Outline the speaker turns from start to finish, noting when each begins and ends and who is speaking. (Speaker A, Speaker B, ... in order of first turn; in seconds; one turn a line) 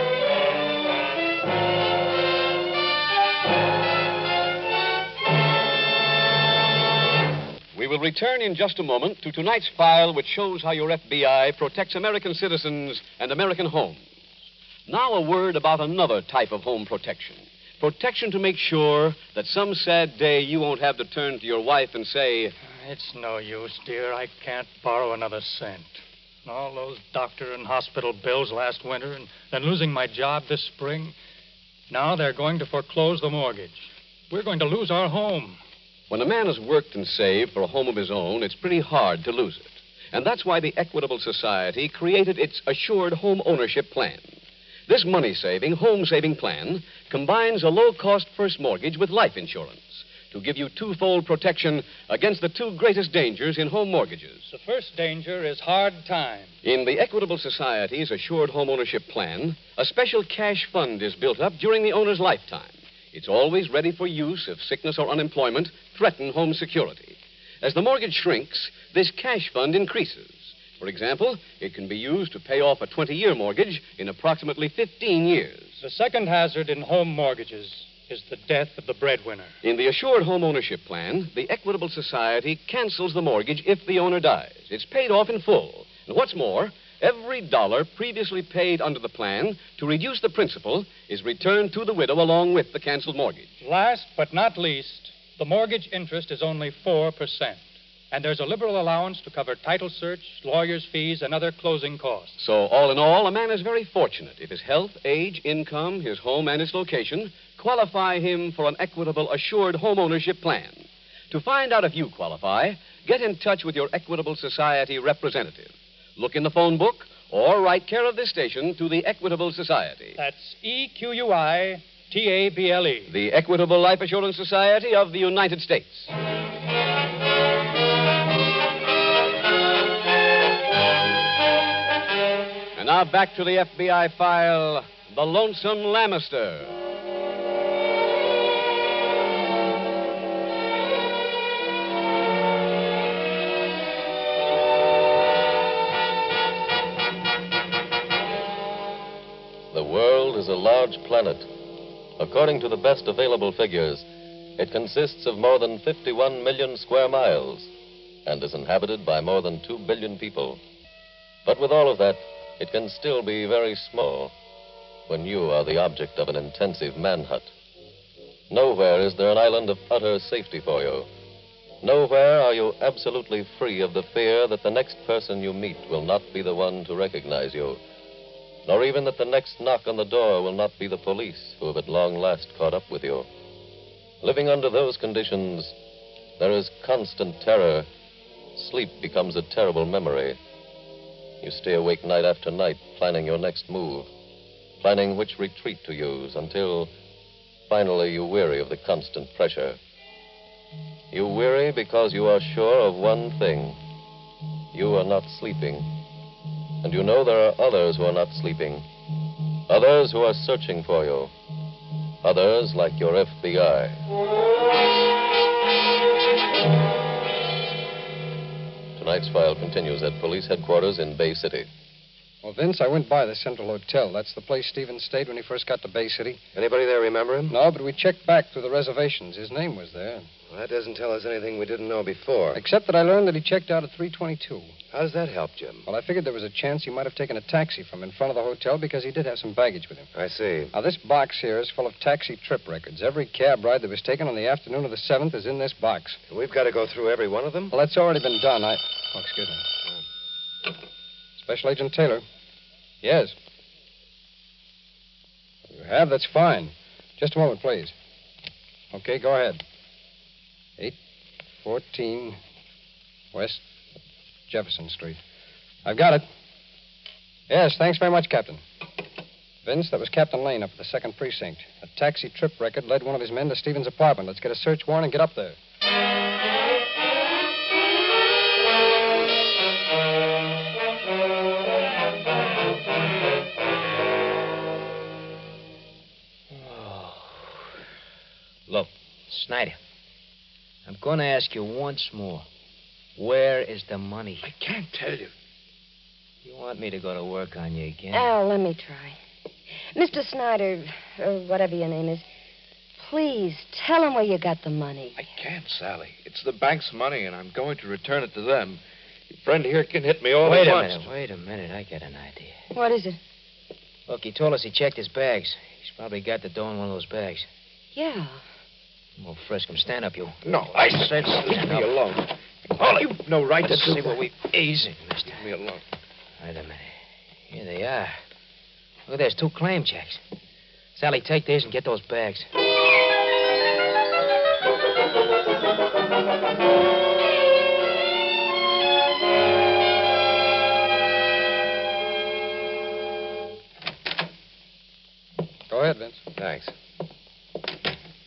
Speaker A: 7.8-14.0
Speaker A: 14.9-22.5
Speaker B: 22.6-31.1
Speaker B: 31.9-35.6
Speaker A: 36.1-44.3
Speaker A: 44.9-54.5
Speaker B: 54.5-56.5
Speaker A: 56.6-75.8
Speaker B: 75.8-79.5
Speaker A: 79.6-93.5
Speaker B: 93.6-102.4
Speaker A: 102.4-120.2
Speaker B: 120.2-123.1
Speaker A: 123.1-126.1
Speaker A: 132.8-136.8
Speaker C: 149.7-151.5
Speaker C: 152.2-154.1
Speaker C: 154.6-157.7
Speaker C: 158.2-160.6
Speaker C: 161.4-164.3
Speaker C: 165.1-167.5
Speaker C: 168.5-171.1
Speaker C: 171.8-177.8
Speaker C: 178.7-183.3
Speaker C: 184.2-185.7
Speaker C: 186.4-187.9
Speaker C: 188.6-190.4
Speaker C: 191.4-194.1
Speaker C: 194.8-196.9
Speaker C: 197.7-199.8
Speaker C: 201.1-203.8
Speaker C: 204.7-205.9
Speaker C: 206.8-208.8
Speaker C: 209.7-211.3
Speaker C: 212.2-214.0
Speaker C: 218.9-221.7
Speaker D: 222.4-226.4
Speaker E: 226.6-227.6
Speaker D: 227.5-230.3
Speaker E: 230.5-232.6
Speaker D: 232.5-234.7
Speaker E: 234.9-235.9
Speaker D: 235.9-240.1
Speaker E: 240.1-240.7
Speaker D: 240.7-246.2
Speaker E: 246.3-247.7
Speaker D: 247.7-249.7
Speaker D: 251.4-252.2
Speaker D: 253.0-253.3
Speaker D: 255.7-257.9
Speaker D: 258.9-259.6
Speaker D: 261.6-262.4
Speaker D: 263.3-263.6
Speaker D: 264.5-265.2
Speaker D: 265.9-266.2
Speaker D: 267.5-268.6
Speaker D: 269.6-275.6
Speaker F: 286.5-287.6
Speaker F: 288.7-289.8
Speaker F: 290.9-292.4
Speaker F: 293.2-294.5
Speaker G: 294.4-295.3
Speaker F: 296.4-298.3
Speaker H: 298.1-299.2
Speaker H: 299.9-302.2
Speaker H: 303.0-305.2
Speaker G: 305.1-311.1
Speaker F: 310.4-312.6
Speaker H: 312.7-313.2
Speaker F: 314.1-317.5
Speaker H: 317.9-318.4
Speaker F: 319.2-321.9
Speaker G: 320.4-324.3
Speaker F: 322.8-325.4
Speaker G: 325.2-325.8
Speaker F: 326.4-326.9
Speaker F: 327.5-328.2
Speaker F: 329.1-330.2
Speaker F: 330.9-332.5
Speaker D: 345.7-346.2
Speaker E: 346.4-346.7